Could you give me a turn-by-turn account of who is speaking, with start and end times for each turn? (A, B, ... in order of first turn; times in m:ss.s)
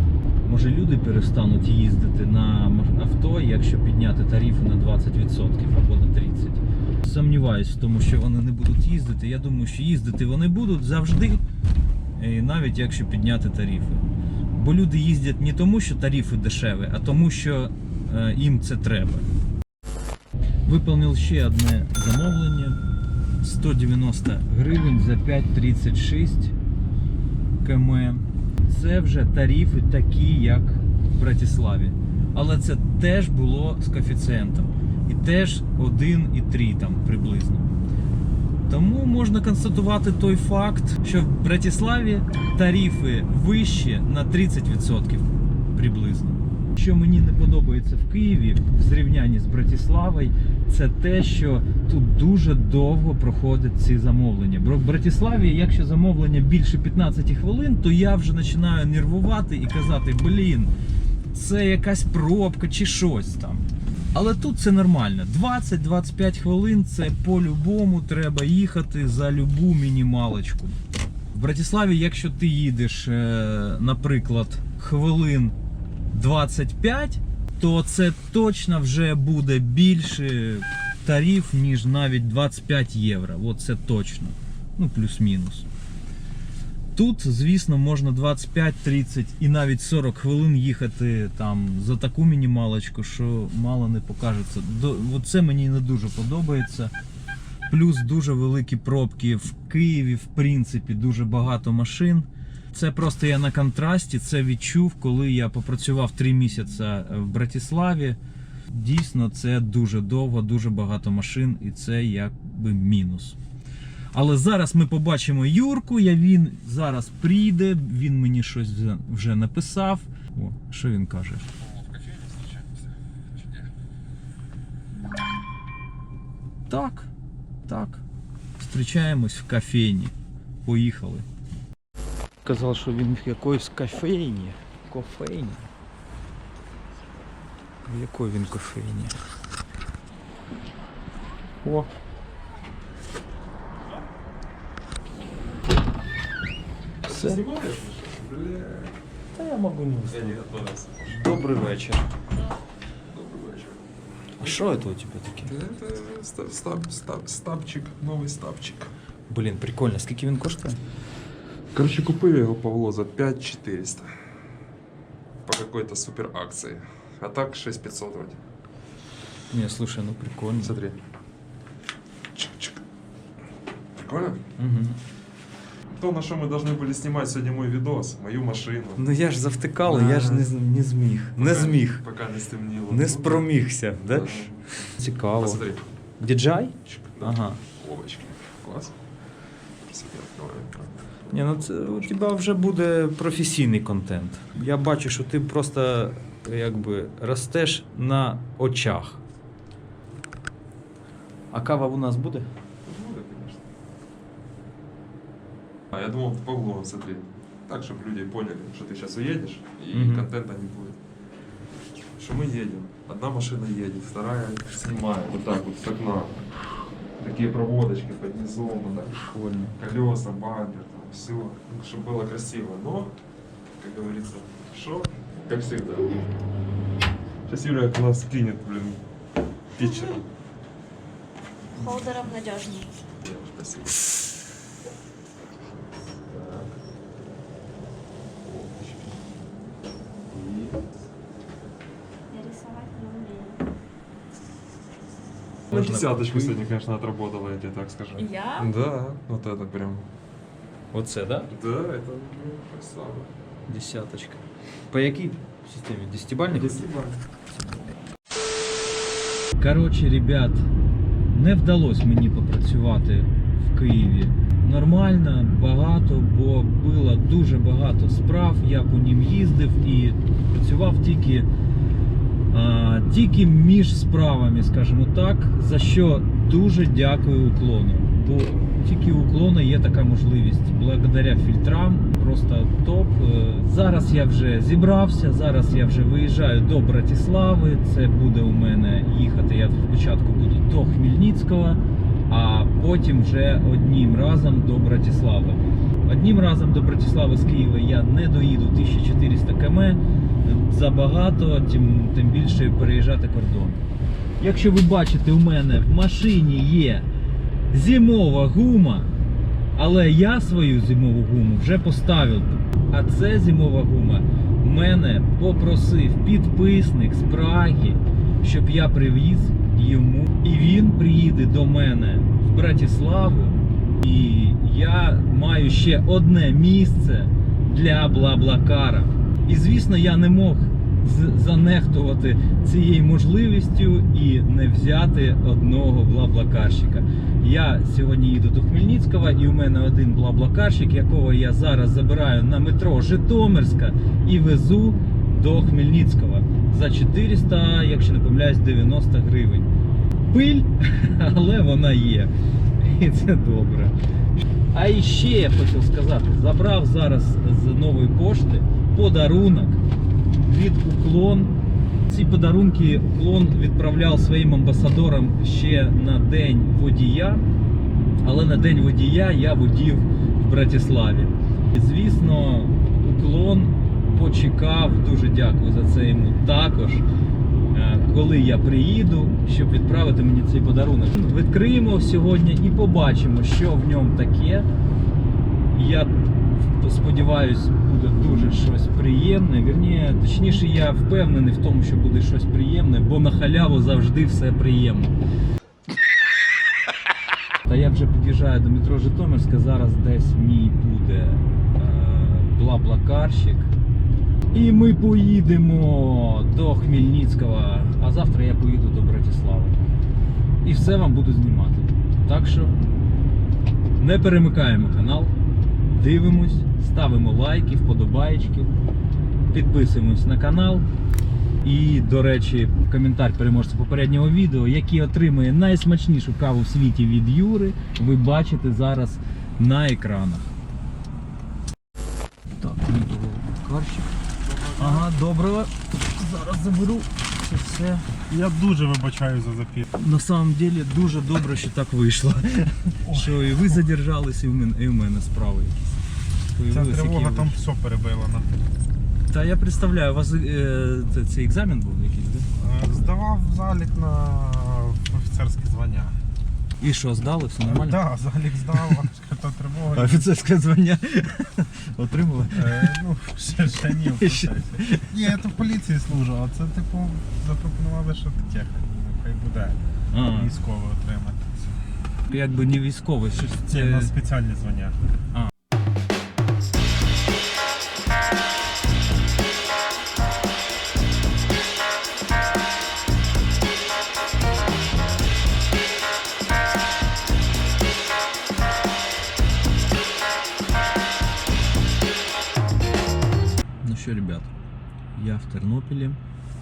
0:00.4-0:11.4 A
0:12.2-0:19.2 A
0:20.6-0:22.8 A
0:23.4-0:26.5 A
0:27.6-0:37.7 A
0:38.7-1:00.7 A
1:01.3-1:10.8 A
1:11.3-1:15.6 A
1:16.1-1:25.7 A
1:26.9-1:36.9 A
1:37.7-1:53.4 A
1:54.1-2:01.5 A
2:06.7-2:07.1 A
2:07.7-2:08.0 A
2:08.6-2:10.1 A
2:10.6-2:11.2 A
2:12.4-2:15.7 A
2:17.8-2:19.2 A
2:21.6-2:21.9 A
2:27.0-2:28.9 B
2:27.1-2:27.4 A
2:29.3-2:30.4 A
2:30.1-2:31.2 B
2:31.0-2:32.1 A
2:33.1-2:33.8 B
2:34.4-2:35.5 A
2:34.4-2:34.9 B
2:35.4-2:38.9 B
2:39.3-2:40.8 A
2:41.7-2:44.1 B
2:45.4-2:48.4 B
2:49.5-2:50.7 A
2:50.6-2:51.0 B
2:52.3-2:52.8 B
2:54.0-2:54.4 B
2:54.6-2:55.0 A
2:55.9-2:59.0 B
2:59.0-3:02.0 A
2:59.8-3:00.5 B
3:01.4-3:05.8 B
3:02.9-3:05.6 A
3:06.2-3:07.6 A
3:06.8-3:09.0 B
3:09.8-3:11.0 B
3:11.3-3:19.2 A
3:21.5-3:22.5 A
3:22.8-3:23.6 B
3:25.9-3:31.0 B
3:29.9-3:30.3 A
3:32.2-3:36.4 B
3:37.2-3:43.1 B
3:39.2-3:39.8 A
3:43.8-3:46.2 B
3:47.5-3:49.0 B
3:49.8-3:50.2 B
3:51.7-3:52.9 C
3:53.2-3:54.1 B
3:55.9-3:56.8 B
3:58.4-3:59.2 B
4:00.3-4:00.8 B
4:02.3-4:03.6 C
4:05.7-4:06.6 A
4:05.7-4:10.1 B
4:08.2-4:08.7 C
4:10.9-4:11.5 A
4:11.5-4:13.3 B
4:13.7-4:16.9 A
4:16.5-4:17.2 B
4:17.5-4:17.8 A
4:19.6-4:20.7 A
4:21.3-4:31.5 A
4:32.5-5:03.8 A
5:04.4-5:07.1 A
5:07.7-5:09.1 A
5:09.8-5:49.7 A
5:50.3-6:01.5 A
6:02.1-6:07.4 A
6:08.2-6:17.0 A
6:17.7-6:24.7 A
6:25.7-6:35.1 A
6:37.6-6:43.7 A
6:44.5-6:49.8 A
6:50.6-6:52.8 A
6:54.0-6:55.3 A
6:55.9-6:58.7 A
6:59.5-7:00.8 A
7:01.6-7:10.5 A
7:12.6-7:14.1 A
7:14.5-7:15.1 D
7:14.8-7:18.1 A
7:18.3-7:19.9 D
7:19.9-7:25.9 A
7:23.0-7:23.5 D
7:26.5-7:27.6 A
7:26.7-7:28.5 D
7:29.3-7:32.5 A
7:32.6-7:36.2 D
7:36.8-7:38.1 A
7:37.6-7:40.3 D
7:38.7-7:39.0 A
7:39.9-7:43.0 A
7:42.5-7:51.5 D
7:44.0-7:45.2 A
7:50.1-7:50.5 A
7:52.3-7:54.1 A
7:53.7-7:55.0 D
8:13.8-8:14.5 A
8:15.1-8:16.2 A